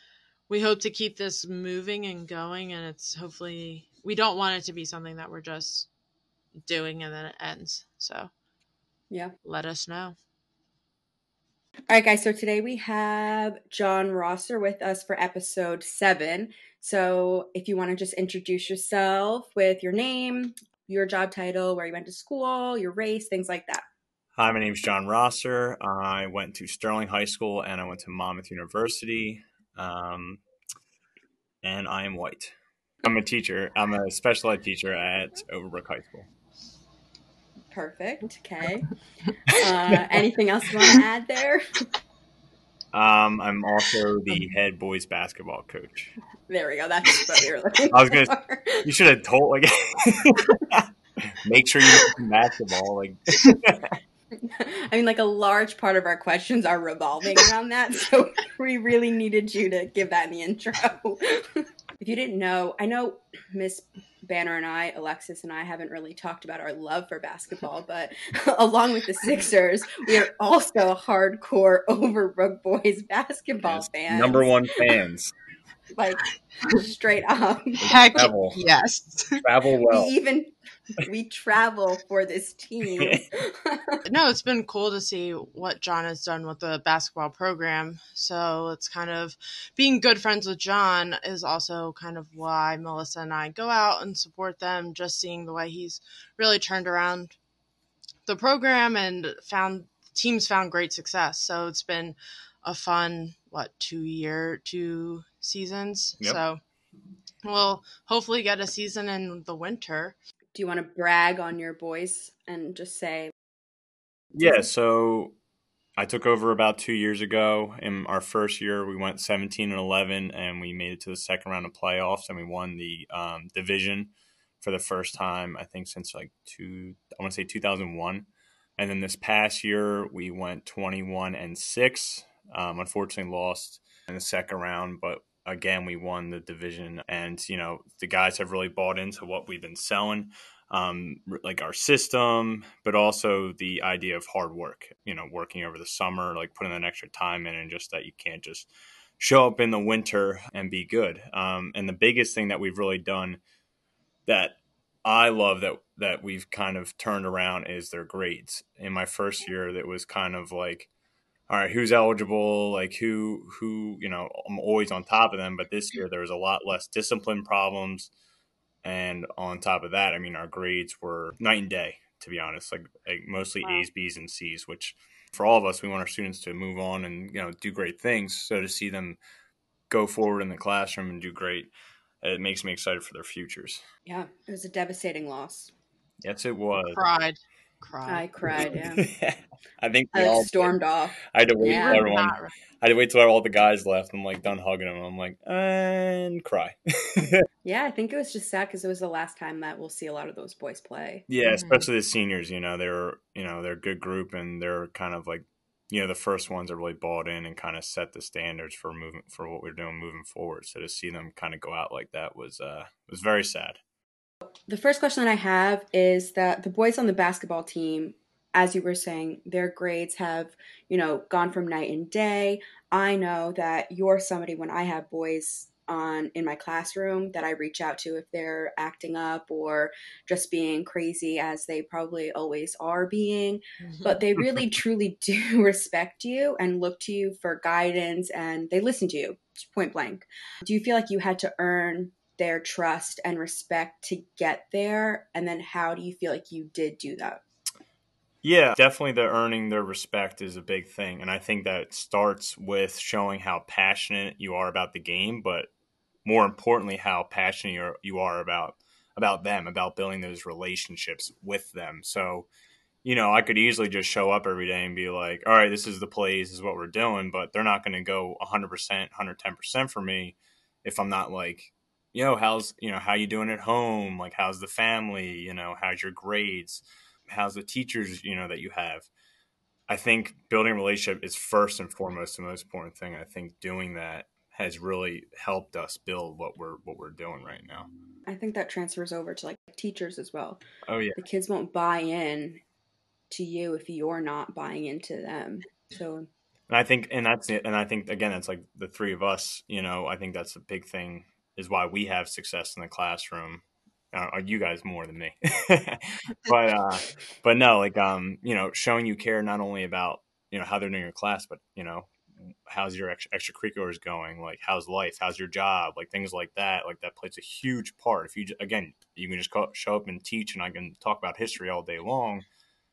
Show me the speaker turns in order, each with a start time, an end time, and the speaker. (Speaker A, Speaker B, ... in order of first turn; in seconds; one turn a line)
Speaker A: 0.5-5.9
Speaker A: 6.7-8.3
Speaker A: 9.4-10.2
Speaker B: 11.9-23.8
Speaker C: 24.4-30.4
Speaker C: 31.6-36.3
Speaker B: 37.7-38.9
Speaker B: 39.5-41.8
Speaker C: 42.9-46.1
Speaker B: 46.5-48.9
Speaker C: 47.9-53.9
Speaker B: 54.4-74.5
Speaker C: 73.7-75.3
Speaker B: 75.9-77.8
Speaker C: 77.8-78.6
Speaker A: 77.8-79.4
Speaker C: 79.4-80.1
Speaker B: 79.9-84.0
Speaker C: 83.0-83.2
Speaker A: 84.1-97.4
Speaker A: 98.3-106.6
Speaker A: 107.5-110.2
Speaker B: 110.5-113.3
Speaker C: 114.3-115.3
Speaker C: 116.0-128.3
Speaker C: 128.8-148.7
Speaker C: 149.2-153.4
Speaker C: 154.3-160.9
Speaker C: 161.5-168.1
Speaker C: 168.8-179.2
Speaker C: 179.9-181.7
Speaker C: 182.2-183.8
Speaker B: 184.1-185.7
Speaker C: 186.2-187.0
Speaker A: 186.9-188.7
Speaker B: 188.1-189.1
Speaker C: 188.6-190.7
Speaker B: 190.1-192.1
Speaker C: 191.3-197.4
Speaker A: 191.6-192.6
Speaker B: 197.6-201.2
Speaker C: 201.3-213.8
Speaker A: 201.4-201.9
Speaker B: 214.7-247.4
Speaker C: 248.4-255.7
Speaker C: 256.2-262.5
Speaker C: 263.0-279.1
Speaker C: 279.9-287.9
Speaker B: 288.3-290.6
Speaker C: 290.9-291.2
Speaker B: 291.2-292.6
Speaker B: 293.3-296.3
Speaker C: 296.7-322.4